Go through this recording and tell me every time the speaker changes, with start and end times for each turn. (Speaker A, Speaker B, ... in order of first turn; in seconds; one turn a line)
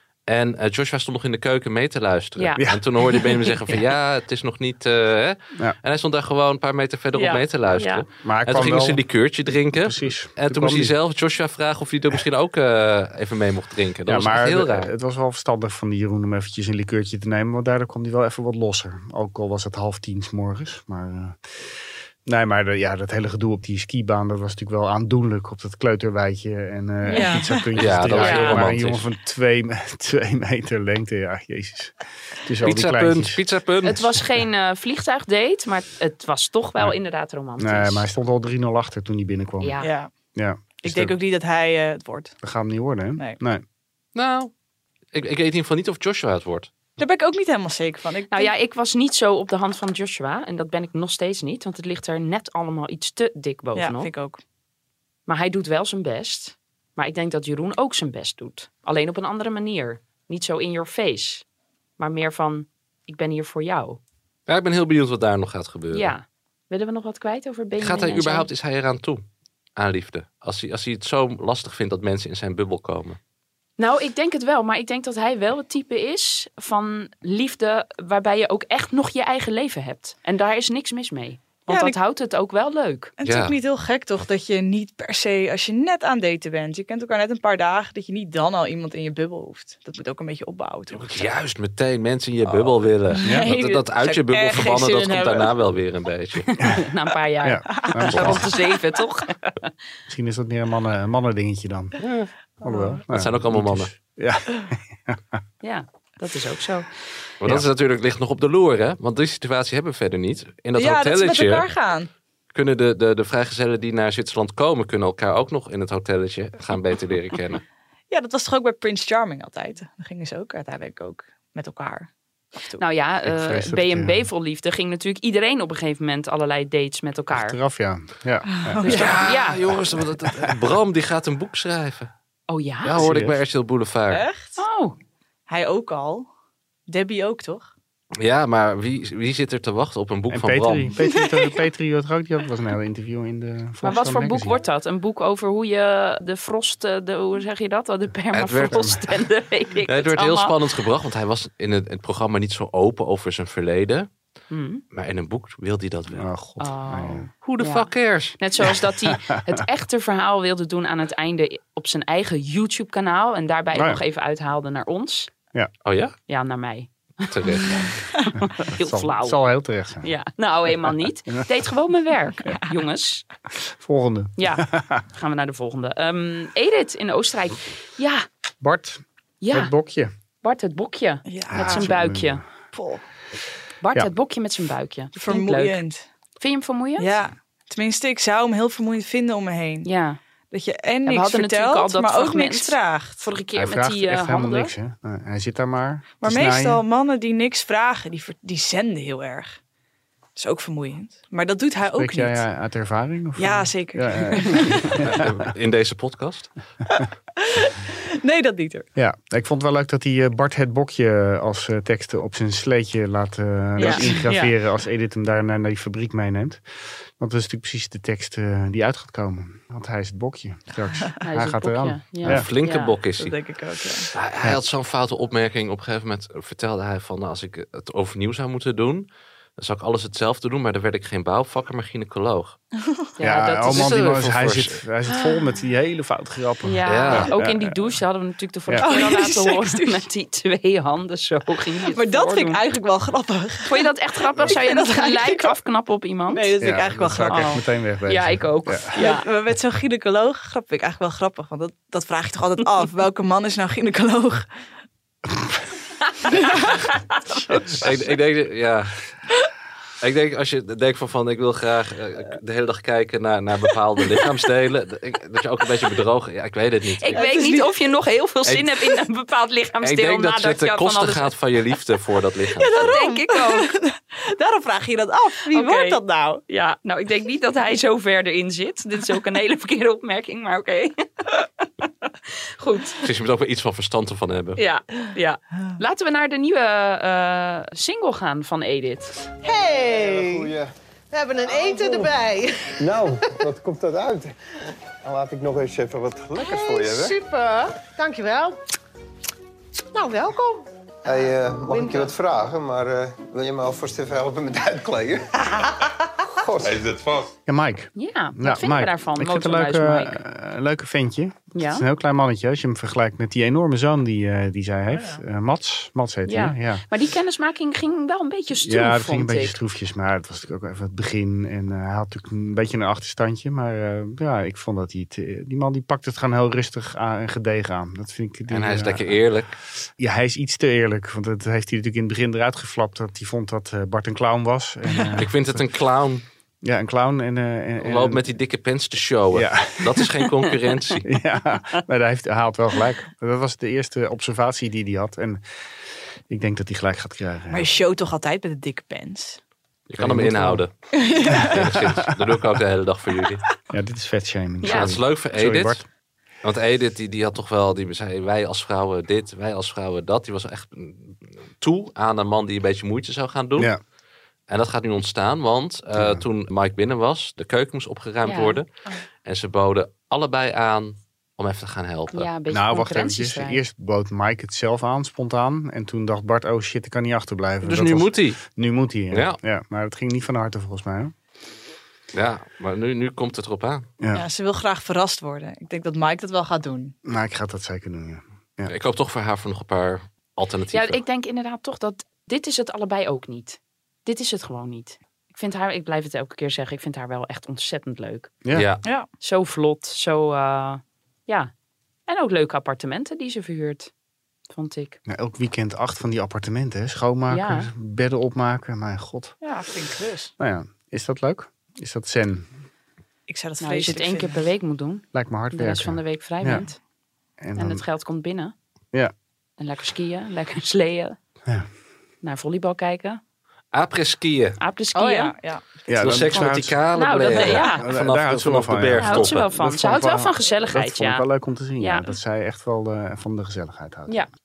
Speaker A: 0.3-14.9
Speaker B: 2.6-2.9
Speaker C: 7.1-8.0
Speaker B: 8.2-9.1
Speaker B: 9.7-10.9
Speaker B: 14.1-33.4
Speaker D: 27.1-27.6
Speaker C: 27.1-27.4
Speaker A: 27.8-29.0
Speaker C: 28.2-28.6
Speaker A: 32.6-34.1
Speaker C: 33.8-38.1
Speaker B: 37.6-39.8
Speaker C: 39.6-39.9
Speaker D: 39.8-40.1
Speaker B: 40.4-41.2
Speaker D: 40.8-42.4
Speaker B: 42.4-43.6
Speaker A: 44.1-44.5
Speaker A: 45.1-46.7
Speaker D: 47.0-48.5
Speaker C: 48.3-54.1
Speaker D: 53.8-54.4
Speaker C: 55.3-61.4
Speaker C: 62.0-64.0
Speaker A: 64.5-66.1
Speaker C: 65.9-68.5
Speaker A: 67.8-69.2
Speaker A: 69.8-73.2
Speaker C: 73.8-83.1
Speaker D: 81.7-82.0
Speaker D: 83.2-91.3
Speaker A: 83.2-83.6
Speaker A: 90.9-96.5
Speaker D: 92.5-95.5
Speaker C: 96.5-99.7
Speaker B: 97.4-98.5
Speaker D: 97.7-98.1
Speaker B: 100.1-102.0
Speaker A: 102.0-102.3
Speaker B: 102.6-105.4
Speaker A: 103.1-103.9
Speaker C: 105.6-106.9
Speaker A: 107.4-111.7
Speaker D: 110.8-112.1
Speaker A: 112.5-117.6
Speaker D: 118.1-122.8
Speaker C: 122.8-127.6
Speaker B: 123.2-124.2
Speaker B: 127.3-129.0
Speaker D: 128.5-129.3
Speaker A: 128.9-132.1
Speaker C: 129.1-129.6
Speaker C: 132.5-133.0
Speaker A: 132.8-134.2
Speaker B: 133.0-133.4
Speaker D: 134.1-134.6
Speaker C: 134.6-134.9
Speaker D: 135.5-136.3
Speaker D: 136.9-137.7
Speaker A: 138.2-140.9
Speaker B: 140.3-144.6
Speaker D: 141.1-141.5
Speaker C: 143.8-150.5
Speaker A: 148.3-148.8
Speaker B: 148.6-149.1
Speaker A: 149.9-154.1
Speaker C: 154.5-154.8
Speaker A: 154.9-156.3
Speaker B: 156.1-157.3
Speaker C: 156.6-165.3
Speaker A: 157.4-158.4
Speaker B: 159.0-159.4
Speaker B: 163.7-164.0
Speaker A: 165.8-166.2
Speaker C: 166.3-167.7
Speaker A: 167.3-167.8
Speaker D: 167.8-168.3
Speaker C: 168.4-169.4
Speaker B: 168.7-170.1
Speaker C: 170.0-173.2
Speaker B: 173.6-175.0
Speaker C: 174.4-178.3
Speaker B: 178.6-180.1
Speaker C: 179.4-179.7
Speaker C: 180.4-182.4
Speaker D: 181.3-181.9
Speaker B: 181.5-182.5
Speaker D: 182.7-183.0
Speaker C: 183.8-185.8
Speaker D: 185.1-186.0
Speaker C: 186.4-187.2
Speaker D: 187.0-189.9
Speaker C: 189.8-190.2
Speaker D: 190.5-193.2
Speaker C: 191.1-194.7
Speaker B: 193.6-196.8
Speaker D: 196.2-199.6
Speaker D: 200.4-202.4
Speaker B: 201.9-205.2
Speaker D: 203.4-204.9
Speaker A: 205.1-206.5
Speaker D: 207.0-208.9
Speaker B: 209.0-222.4
Speaker C: 213.8-214.5
Speaker D: 213.8-214.2
Speaker C: 221.2-222.9
Speaker A: 222.2-223.4
Speaker D: 223.2-224.1
Speaker A: 224.1-229.1
Speaker A: 229.6-232.6
Speaker C: 233.2-234.1
Speaker B: 233.2-237.9
Speaker A: 233.7-234.8
Speaker C: 235.1-235.5
Speaker C: 236.7-242.6
Speaker A: 236.9-237.3
Speaker D: 238.8-240.0
Speaker D: 241.9-245.6
Speaker C: 243.7-246.5
Speaker D: 246.3-247.6
Speaker B: 246.6-248.9
Speaker C: 247.2-249.3
Speaker D: 248.9-254.5
Speaker B: 255.3-255.6
Speaker C: 256.1-257.4
Speaker D: 256.4-256.6
Speaker A: 257.7-259.0
Speaker A: 260.0-267.2
Speaker C: 267.0-271.3
Speaker D: 267.1-267.8
Speaker A: 268.5-268.7
Speaker A: 269.8-272.9
Speaker D: 272.6-276.4
Speaker C: 272.8-273.7
Speaker C: 275.5-281.4
Speaker C: 282.6-283.0
Speaker A: 283.0-284.6
Speaker C: 284.6-289.2
Speaker E: 289.4-290.5
Speaker F: 289.9-290.7
Speaker E: 291.1-293.4
Speaker F: 291.4-292.1
Speaker F: 292.8-294.4
Speaker F: 295.0-297.2
Speaker E: 296.4-298.6
Speaker E: 299.9-302.1
Speaker F: 301.1-305.6
Speaker F: 306.4-307.2
Speaker B: 307.5-316.8
Speaker C: 308.0-310.2
Speaker C: 311.6-311.9
Speaker C: 316.3-319.6
Speaker B: 318.6-329.2
Speaker A: 328.5-329.5
Speaker B: 330.0-335.6
Speaker A: 335.2-336.2
Speaker B: 336.6-338.2
Speaker A: 337.8-341.1
Speaker B: 339.3-340.1
Speaker B: 341.1-345.4
Speaker B: 346.3-347.7
Speaker D: 347.5-349.4
Speaker A: 349.9-350.7
Speaker B: 350.0-350.6
Speaker D: 351.0-351.6
Speaker A: 351.3-353.4
Speaker B: 351.3-352.1
Speaker B: 353.7-355.8
Speaker C: 354.6-354.9
Speaker A: 354.6-355.8
Speaker A: 356.4-363.7
Speaker A: 364.5-368.7
Speaker B: 365.9-366.2
Speaker C: 368.2-368.6
Speaker A: 369.2-372.3
Speaker C: 372.1-373.6
Speaker B: 372.5-381.1
Speaker A: 377.6-378.4
Speaker A: 379.1-379.4
Speaker A: 382.1-383.9
Speaker D: 384.1-386.9
Speaker B: 387.1-388.7
Speaker A: 388.7-391.0
Speaker C: 390.7-398.3
Speaker A: 398.5-398.8
Speaker C: 399.2-401.5
Speaker C: 402.1-403.9
Speaker C: 404.5-405.0
Speaker B: 405.1-409.4
Speaker C: 407.3-407.7
Speaker D: 409.4-410.3
Speaker B: 410.4-412.5
Speaker D: 413.3-414.4
Speaker C: 413.6-416.8
Speaker B: 415.1-416.6
Speaker B: 417.4-417.8
Speaker C: 417.6-418.5
Speaker C: 419.6-421.2
Speaker C: 422.2-423.2
Speaker A: 423.7-424.6
Speaker C: 424.6-425.3
Speaker D: 424.9-425.9
Speaker B: 425.9-426.8
Speaker A: 426.0-429.5
Speaker C: 426.9-427.9
Speaker B: 427.3-434.2
Speaker C: 429.0-431.3
Speaker C: 431.8-432.1